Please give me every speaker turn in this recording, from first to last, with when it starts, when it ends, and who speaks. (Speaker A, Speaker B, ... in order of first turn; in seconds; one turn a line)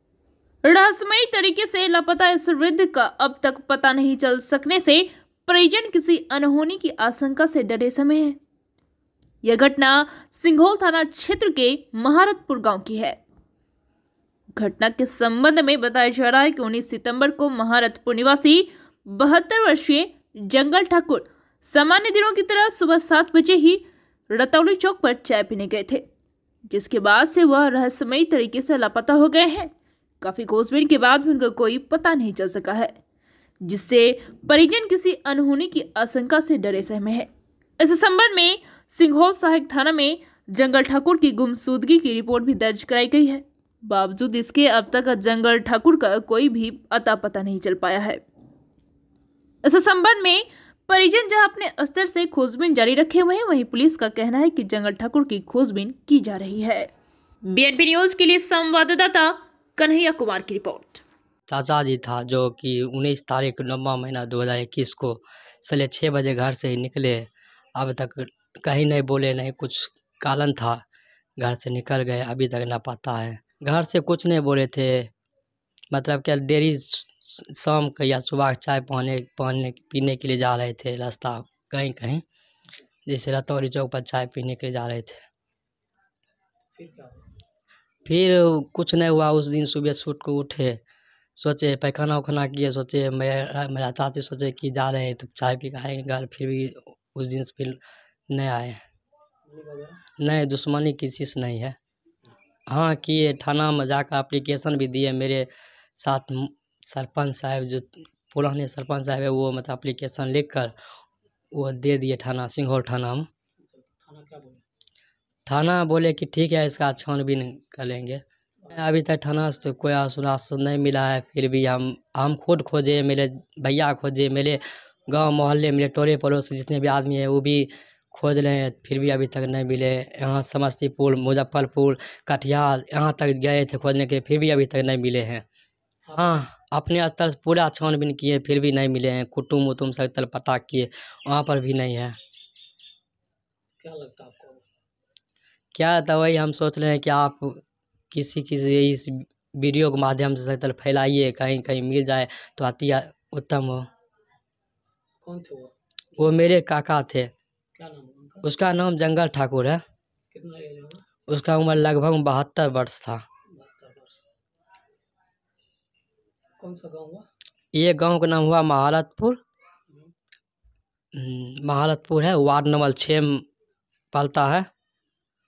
Speaker A: 0.6-8.4
Speaker A: 9.4-13.2
Speaker A: 14.6-26.1
Speaker A: 26.7-33.0
Speaker A: 33.6-37.3
Speaker A: 37.8-48.2
Speaker A: 49.6-56.9
Speaker A: 57.5-61.0
Speaker B: 61.5-70.8
Speaker B: 71.4-75.1
Speaker B: 75.9-82.2
Speaker B: 83.1-85.2
Speaker C: 86.8-87.3
Speaker B: 88.1-90.8
Speaker B: 91.4-97.8
Speaker B: 98.3-98.8
Speaker C: 99.5-100.0
Speaker B: 100.2-101.8
Speaker B: 102.7-110.7
Speaker B: 111.5-113.3
Speaker C: 113.6-114.6
Speaker B: 115.5-135.4
Speaker C: 136.1-136.5
Speaker B: 136.2-142.2
Speaker C: 143.8-144.6
Speaker B: 145.7-147.6
Speaker B: 148.1-153.9
Speaker C: 155.2-156.3
Speaker B: 156.2-157.3
Speaker C: 157.8-158.5
Speaker B: 158.4-159.8
Speaker C: 160.3-161.1
Speaker B: 161.3-163.2
Speaker C: 163.5-164.2
Speaker C: 166.6-167.3
Speaker B: 167.7-169.4
Speaker B: 171.1-173.4
Speaker B: 174.1-174.7